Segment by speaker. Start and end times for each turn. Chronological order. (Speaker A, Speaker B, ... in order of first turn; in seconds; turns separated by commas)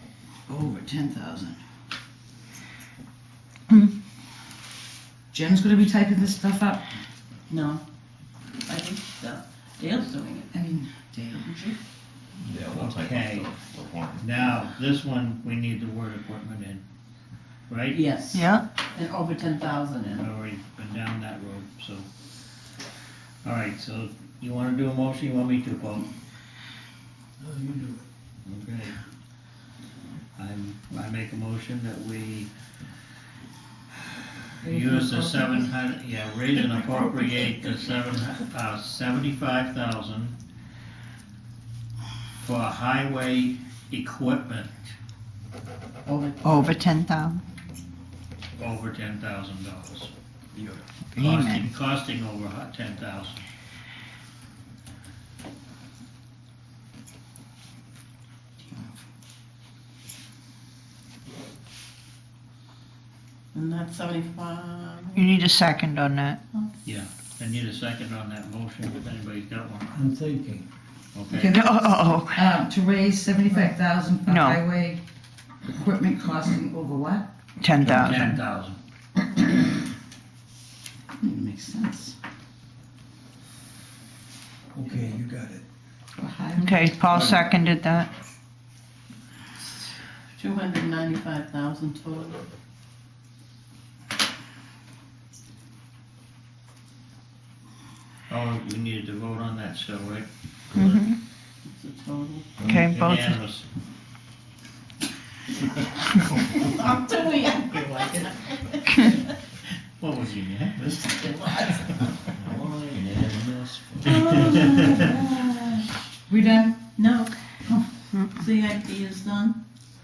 Speaker A: 0.5-1.6, Speaker A: 5.3-6.8, Speaker B: 7.5-7.8, Speaker B: 8.7-10.5, Speaker A: 10.5-11.6, Speaker B: 11.4-11.8, Speaker C: 12.4-14.3, Speaker D: 12.7-13.5, Speaker D: 14.2-16.8, Speaker D: 17.7-18.0, Speaker B: 17.9-20.2, Speaker E: 18.3-18.7, Speaker D: 20.2-22.1, Speaker D: 23.4-26.1, Speaker F: 27.4-28.1, Speaker D: 28.4-28.9, Speaker D: 30.4-32.5, Speaker A: 34.6-35.7, Speaker D: 34.6-40.4, Speaker D: 42.4-44.9, Speaker B: 46.1-46.7, Speaker E: 46.4-47.4, Speaker D: 48.6-50.1, Speaker E: 51.1-51.7, Speaker D: 51.2-53.4, Speaker B: 63.5-65.2, Speaker E: 65.2-66.4, Speaker D: 66.8-69.9, Speaker F: 70.0-70.7, Speaker D: 71.1-71.6, Speaker E: 71.3-72.5, Speaker A: 71.5-75.0, Speaker E: 74.3-74.6, Speaker A: 75.7-77.3, Speaker E: 77.6-78.2, Speaker D: 77.8-78.8, Speaker A: 81.2-82.2, Speaker F: 84.7-85.7, Speaker A: 86.2-87.3, Speaker E: 86.6-88.1, Speaker B: 90.4-92.4, Speaker D: 98.3-101.0, Speaker E: 100.7-101.2, Speaker B: 101.7-102.5, Speaker E: 102.6-103.4, Speaker D: 102.8-103.7, Speaker B: 106.2-109.2, Speaker D: 110.0-111.0, Speaker B: 110.8-112.0, Speaker C: 112.3-115.0, Speaker D: 114.0-115.1, Speaker B: 114.1-115.8, Speaker A: 116.3-116.8, Speaker B: 116.8-117.3, Speaker B: 118.3-119.6